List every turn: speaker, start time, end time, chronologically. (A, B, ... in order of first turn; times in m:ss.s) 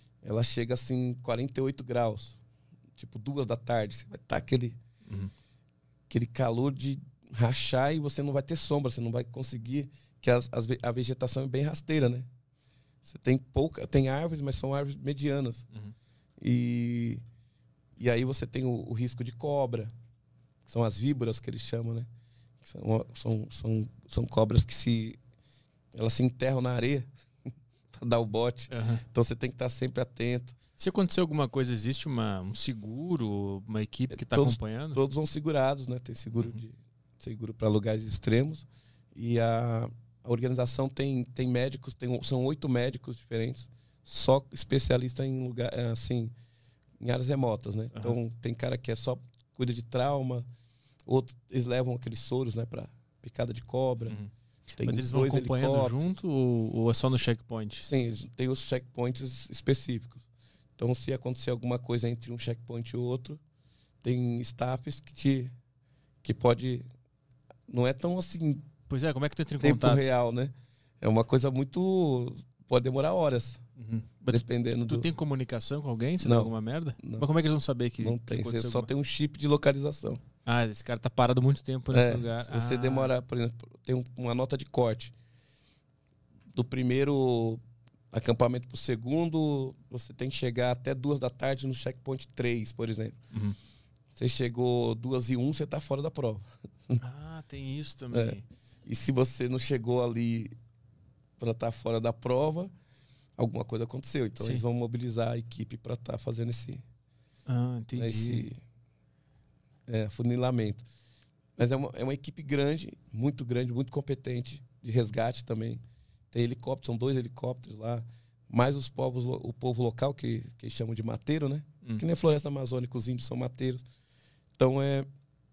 0:00.2-0:02.4 A
0:03.0-0:04.8 A
0:06.1-0:12.3 A
0:13.0-0:15.7 A
0:16.4-0:17.2 A
0:18.0-0:19.9 A
0:20.7-0:22.1 A
0:22.6-0:25.2 A
0:26.0-0:27.1 A
0:27.9-0:30.6 A
0:28.7-0:29.0 B
0:30.8-0:35.0 B
0:34.1-0:46.3 A
0:47.0-0:50.5 A
0:47.9-0:48.2 B
0:51.1-0:54.2 A
0:54.8-0:56.0 A
0:54.8-0:57.9 B
0:57.8-1:00.2 A
1:00.8-1:03.4 A
1:04.0-1:05.5 A
1:06.2-1:06.8 A
1:07.7-1:08.7 A
1:08.9-1:10.1 B
1:09.6-1:13.6 A
1:13.8-1:18.9 B
1:14.3-1:15.1 A
1:16.2-1:17.3 A
1:18.0-1:20.2 A
1:20.5-1:23.1 B
1:21.9-1:25.1 A
1:26.5-1:33.2 A
1:34.2-1:37.0 A
1:37.0-1:38.4 B
1:38.1-1:40.5 A
1:41.4-1:42.7 A
1:43.4-1:46.8 A
1:47.5-1:48.5 B
1:48.0-1:48.6 A
1:49.9-1:50.8 A
1:51.6-1:55.8 A
1:56.3-2:03.8 A
2:04.6-2:05.1 A